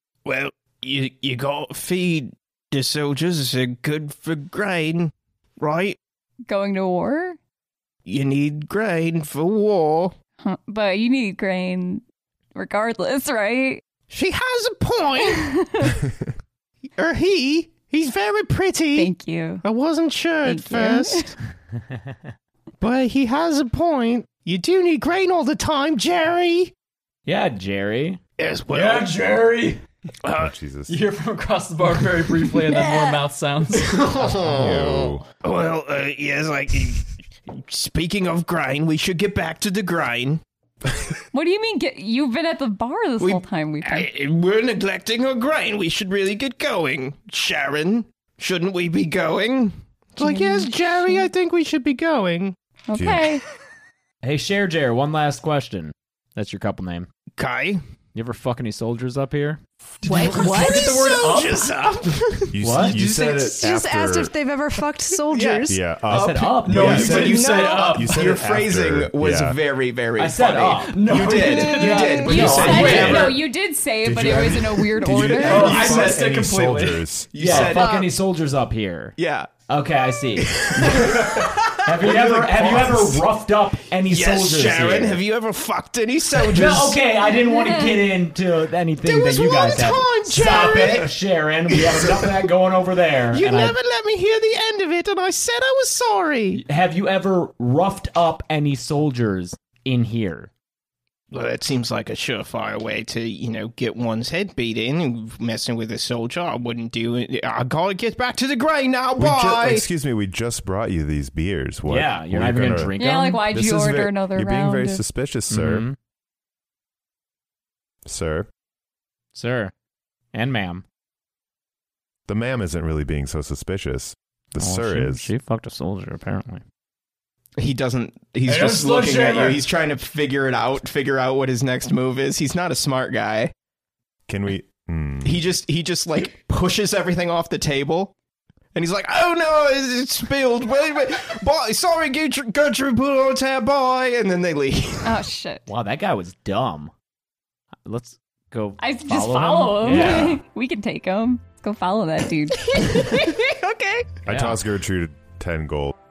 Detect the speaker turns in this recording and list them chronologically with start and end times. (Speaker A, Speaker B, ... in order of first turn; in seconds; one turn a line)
Speaker A: 0.2-6.0
Speaker B: 6.5-7.4
Speaker A: 8.1-10.1
Speaker B: 10.4-12.0
Speaker B: 12.5-13.8
Speaker A: 14.1-15.6
Speaker B: 15.2-16.0
Speaker A: 17.0-19.1
Speaker B: 18.9-19.6
Speaker A: 19.6-21.3
Speaker B: 20.4-21.3
Speaker A: 22.8-26.7
Speaker C: 27.2-28.2
Speaker A: 28.4-29.1
Speaker D: 28.7-29.8
Speaker A: 30.2-30.5
Speaker E: 30.3-31.0
Speaker D: 30.9-34.1
Speaker F: 32.6-33.2
Speaker C: 33.9-34.4
Speaker A: 34.1-40.4
Speaker E: 34.5-35.2
Speaker B: 41.3-44.1
Speaker A: 43.2-52.5
Speaker B: 50.2-51.3
Speaker B: 52.9-53.4
Speaker E: 52.9-53.4
Speaker C: 54.2-57.1
Speaker A: 57.4-57.8
Speaker C: 58.1-59.6
Speaker D: 60.0-61.9
Speaker F: 60.0-61.4
Speaker A: 60.2-62.5
Speaker E: 62.5-64.3
Speaker C: 62.6-63.0
Speaker D: 62.9-63.3
Speaker F: 63.2-65.8
Speaker A: 65.3-73.4
Speaker E: 65.7-69.6
Speaker D: 66.1-68.3
Speaker F: 67.3-67.8
Speaker C: 70.2-73.4
Speaker D: 70.9-73.3
Speaker B: 72.0-75.8
Speaker E: 74.0-77.5
Speaker D: 75.3-77.0
Speaker A: 75.4-76.5
Speaker C: 75.5-76.8
Speaker A: 77.3-78.0
Speaker C: 77.4-79.1
Speaker F: 77.8-78.1
Speaker A: 79.2-79.5
Speaker C: 79.7-85.2
Speaker A: 80.4-83.2
Speaker A: 84.0-87.0
Speaker C: 86.4-93.8
Speaker B: 87.5-88.0
Speaker A: 89.0-91.1
Speaker A: 91.7-92.4
Speaker A: 93.3-96.6
Speaker C: 96.5-100.5
Speaker A: 101.3-109.9
Speaker E: 109.2-113.0
Speaker C: 111.9-113.5
Speaker B: 113.0-115.0
Speaker E: 113.5-115.8
Speaker C: 115.5-116.0
Speaker E: 118.0-118.5
Speaker C: 119.3-119.7
Speaker C: 120.3-120.8
Speaker E: 122.3-125.3
Speaker C: 124.6-126.6
Speaker A: 127.6-133.5
Speaker D: 128.4-129.6
Speaker E: 134.3-135.5
Speaker A: 135.2-138.1
Speaker A: 138.7-145.1
Speaker B: 145.0-145.7
Speaker C: 145.7-146.9
Speaker C: 147.8-150.4
Speaker B: 148.8-153.4
Speaker A: 153.0-154.1
Speaker E: 154.2-155.9
Speaker C: 154.3-154.6